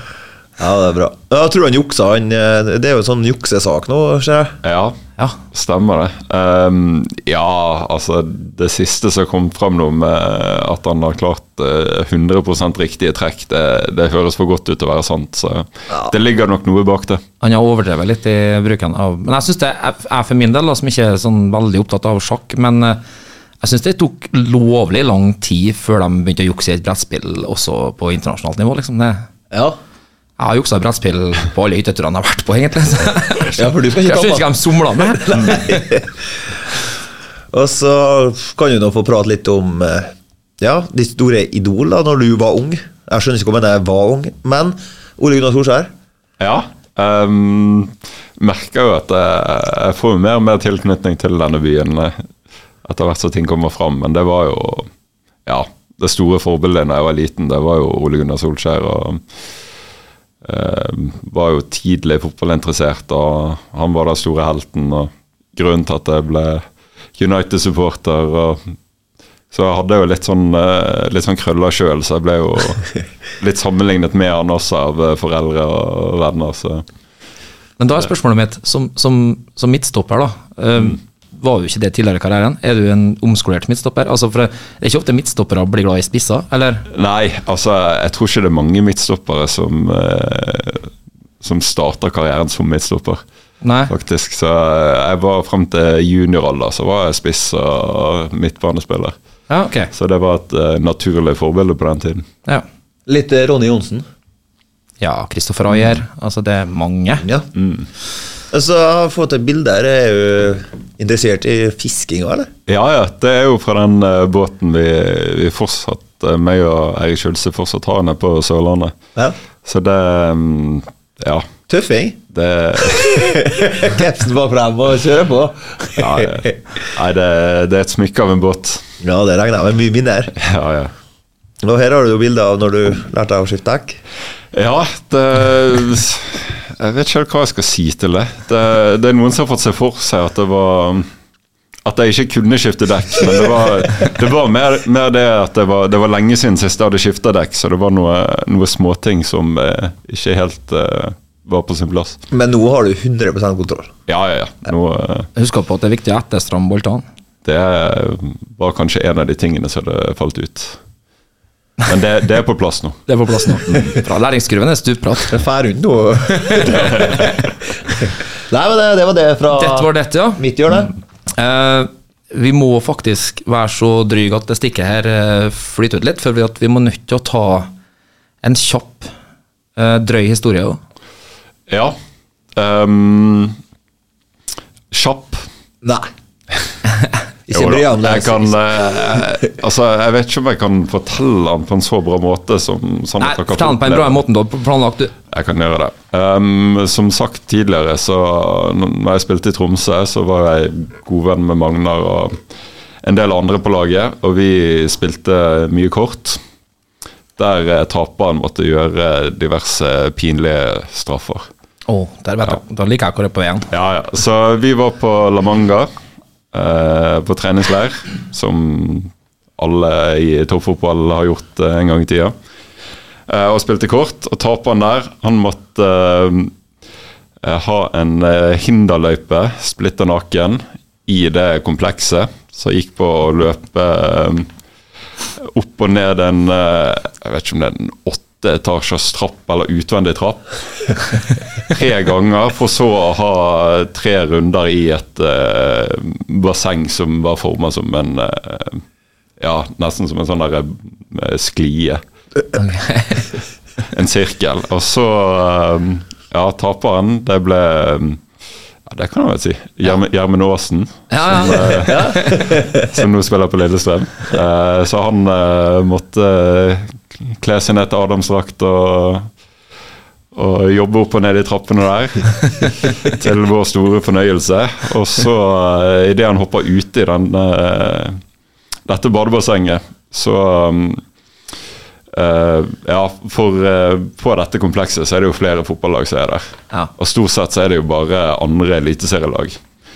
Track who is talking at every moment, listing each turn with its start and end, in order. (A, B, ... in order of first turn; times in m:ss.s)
0:00.6-0:04.6 A
0:04.6-0:05.0 B
0:05.5-0:17.2 B
0:17.4-0:23.0 C
0:23.6-0:29.2 C
0:29.5-0:29.8 A
0:30.4-0:36.0 C
0:33.6-0:36.1 A
0:37.5-0:45.9 A
0:46.4-0:52.2 B
0:52.8-0:54.9 B
0:55.4-0:59.2 B
1:00.4-1:06.6 B
1:07.2-1:08.6 B
1:09.5-1:16.8 B
1:17.8-1:26.8 C
1:26.9-1:33.2 B
1:33.6-1:33.9 C
1:33.9-1:39.1 B
1:39.5-1:39.9 C
1:39.9-1:42.2 B
1:43.1-1:44.1 A
1:45.0-1:47.2 C
1:47.5-1:47.9 B
1:48.5-1:52.5 A
1:52.7-1:58.9 B
1:59.6-2:01.5 B
2:01.7-2:02.2 A
2:02.3-2:03.5 B
2:02.9-2:06.5 A
2:06.0-2:08.8 B
2:09.0-2:10.3 A
2:10.4-2:10.9 B
2:11.6-2:14.0 A
2:14.5-2:21.1 B
2:21.8-2:32.2 B
2:32.3-2:33.9 A
2:34.1-2:35.3 B
2:35.4-2:37.0 C
2:37.4-2:40.8 B
2:41.8-2:43.1 B
2:43.1-2:45.3 C
2:45.3-2:50.9 A
2:46.3-2:46.8 C
2:49.5-2:50.4 C
2:51.3-2:57.7 C
2:58.4-2:59.1 C
2:59.8-3:00.8 C
3:01.7-3:02.0 B
3:02.5-3:03.6 B
3:04.9-3:05.4 B
3:05.8-3:06.1 A
3:07.5-3:09.2 A
3:07.5-3:14.2 B
3:13.2-3:15.1 C
3:15.3-3:22.4 B
3:23.0-3:26.4 B
3:27.4-3:31.5 B
3:31.9-3:33.7 C
3:33.7-3:35.9 B
3:36.5-3:42.3 B
3:43.3-3:46.5 B
3:47.4-3:54.5 B
3:55.3-4:08.8 B
4:09.4-4:12.0 B
4:12.5-4:13.3 C
4:13.8-4:18.2 B
4:18.8-4:29.3 B
4:21.1-4:22.5 C
4:21.8-4:22.9 A
4:30.3-4:38.2 B
4:38.9-4:41.0 B
4:42.1-4:49.6 B